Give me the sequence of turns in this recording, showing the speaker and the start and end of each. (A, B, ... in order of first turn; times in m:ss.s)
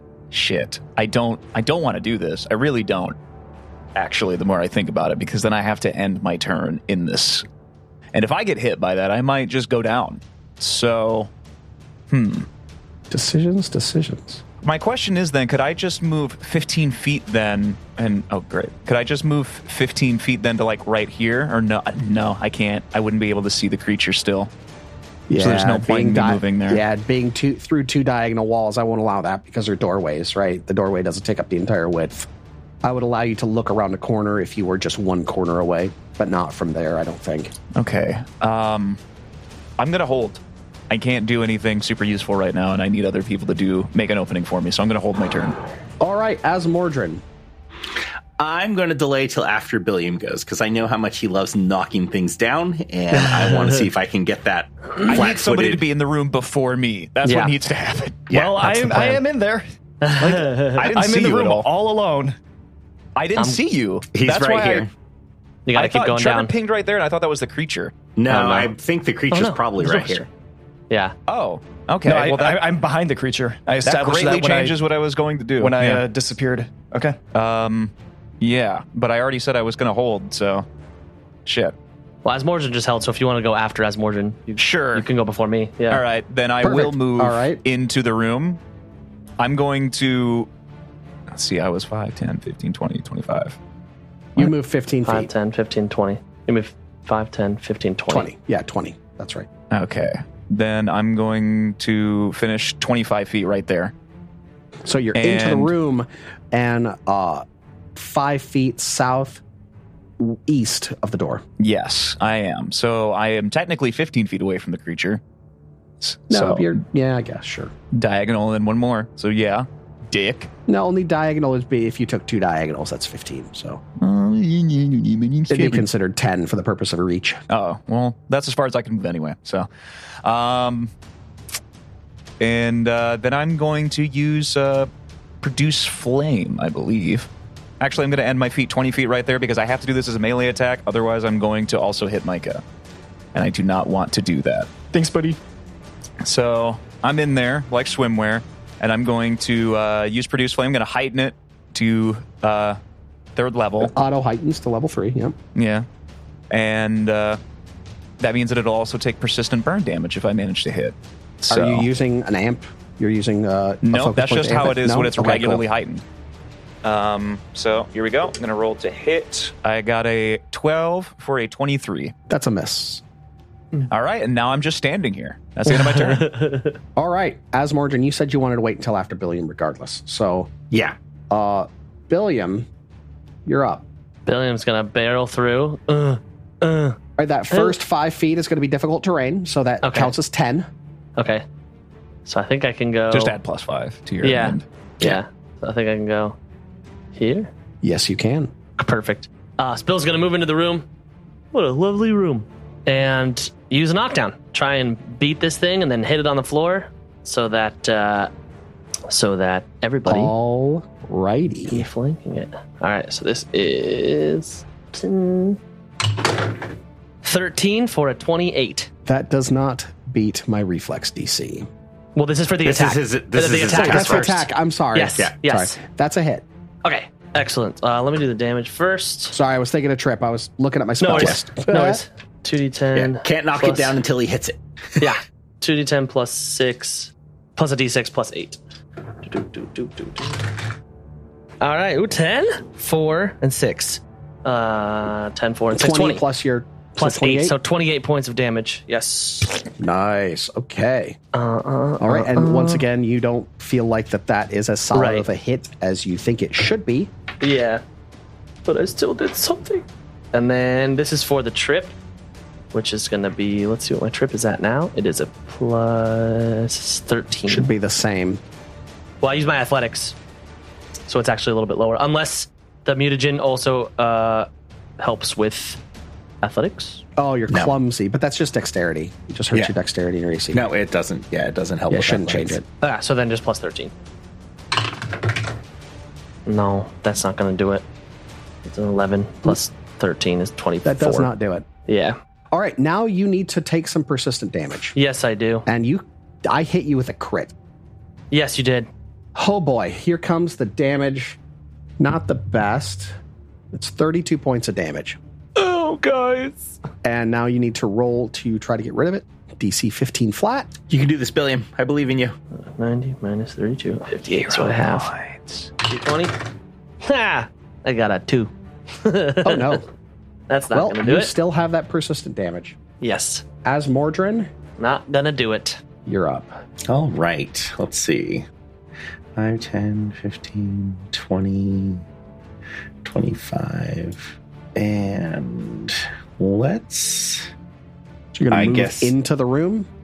0:00.3-0:03.1 A
0:03.9-0:07.4 A
0:08.1-0:11.3 A
0:12.1-0:12.5 A
0:13.1-0:14.4 B
0:14.6-0:24.5 A
0:25.3-0:32.3 B
0:25.4-0:26.8 A
0:32.8-0:37.5 B
0:37.7-0:39.0 A
0:39.8-0:45.6 A
0:46.0-0:47.2 B
0:48.4-0:55.8 C
0:53.1-0:53.8 D
0:55.0-0:59.2 A
0:57.2-0:57.5 D
0:58.3-0:58.7 C
0:58.3-0:59.6 E
1:00.0-1:00.8 D
1:00.2-1:02.4 E
1:00.7-1:01.7 A
1:03.2-1:04.8 A
1:04.1-1:04.9 C
1:05.6-1:06.5 D
1:05.7-1:07.9 A
1:08.2-1:10.3 C
1:08.3-1:08.7 D
1:09.3-1:10.2 D
1:10.9-1:11.1 D
1:11.3-1:12.6 A
1:12.0-1:14.8 E
1:13.8-1:16.0 A
1:15.6-1:17.2 E
1:17.3-1:20.6 A
1:21.4-1:21.8 A
1:22.2-1:26.0 D
1:24.6-1:25.0 A
1:25.9-1:28.6 A
1:26.6-1:27.6 B
1:29.4-1:30.5 A
1:31.3-1:33.6 A
1:34.4-1:35.3 B
1:35.0-1:38.3 D
1:38.1-1:39.5 B
1:39.7-1:43.9 A
1:44.8-1:47.4 B
1:45.2-1:45.7 A
1:47.9-1:49.4 B
1:50.2-1:51.4 B
1:51.6-1:55.2 A
1:56.0-1:56.8 A
1:56.3-1:57.7 B
1:57.9-2:00.5 A
2:00.7-2:03.8 B
2:04.0-2:05.8 A
2:05.5-2:07.4 B
2:07.5-2:09.7 A
2:10.2-2:10.9 A
2:12.4-2:14.9 A
2:15.4-2:17.3 A
2:17.8-2:22.6 A
2:23.3-2:24.7 A
2:24.9-2:25.4 E
2:26.2-2:32.8 A
2:33.4-2:33.9 A
2:33.8-2:35.4 B
2:35.5-2:35.8 A
2:36.5-2:37.4 A
2:38.2-2:41.9 A
2:41.5-2:45.6 B
2:43.8-2:46.0 A
2:46.8-2:52.1 A
2:52.3-2:53.0 B
2:53.9-2:56.3 A
2:55.7-2:56.8 D
2:57.0-3:00.5 B
3:00.7-3:01.0 C
3:01.3-3:02.7 B
3:03.4-3:03.8 B
3:04.2-3:07.0 D
3:07.2-3:10.7 B
3:07.5-3:07.8 D
3:09.8-3:10.1 D
3:11.2-3:11.4 D
3:12.2-3:13.3 D
3:13.1-3:14.6 A
3:14.2-3:16.4 D
3:17.1-3:17.5 D
3:17.8-3:18.5 B
3:18.8-3:20.9 D
3:21.5-3:28.3 D
3:29.1-3:30.3 D
3:30.0-3:31.9 B
3:31.7-3:35.6 D
3:37.2-3:38.9 D
3:39.0-3:41.7 B
3:42.1-3:45.8 D
3:42.6-3:44.4 C
3:43.7-3:46.4 B
3:46.8-3:49.4 D
3:49.3-3:52.0 B
3:51.0-3:53.9 D
3:51.1-3:51.4 C
3:52.9-3:55.0 C
3:55.0-3:58.6 D
3:59.2-4:00.5 D
4:01.6-4:06.2 D
4:05.7-4:07.6 B
4:07.0-4:09.6 D
4:09.8-4:11.2 B
4:11.3-4:12.8 D
4:12.0-4:17.1 B
4:14.9-4:15.3 D
4:17.4-4:17.8 D
4:18.6-4:21.9 D
4:22.7-4:27.7 D
4:27.5-4:28.4 B
4:29.2-4:30.2 D
4:31.1-4:35.8 D
4:36.4-4:37.0 D
4:37.2-4:40.7 B
4:40.5-4:42.6 C
4:41.9-4:42.6 B
4:42.8-4:43.9 D
4:46.4-4:47.8 D
4:48.6-4:51.3 D
4:50.8-4:51.7 B
4:51.9-4:52.2 D
4:52.5-4:54.9 B
4:54.9-4:55.7 D
4:55.7-4:57.5 B
4:58.3-4:58.9 D
4:59.4-5:01.4 B
5:02.0-5:03.1 B
5:03.7-5:05.2 B
5:05.6-5:06.7 A
5:07.0-5:10.7 B
5:10.9-5:12.3 C
5:12.6-5:15.1 D
5:14.4-5:15.7 A
5:15.8-5:16.4 D
5:17.0-5:19.8 D
5:19.4-5:19.8 B
5:20.5-5:21.3 D
5:20.7-5:22.8 B
5:23.0-5:23.4 D
5:23.6-5:24.5 B
5:24.8-5:25.8 D
5:26.0-5:26.5 B
5:26.9-5:28.5 C
5:29.4-5:32.0 C
5:33.0-5:37.5 C
5:38.3-5:39.9 B
5:38.5-5:39.1 C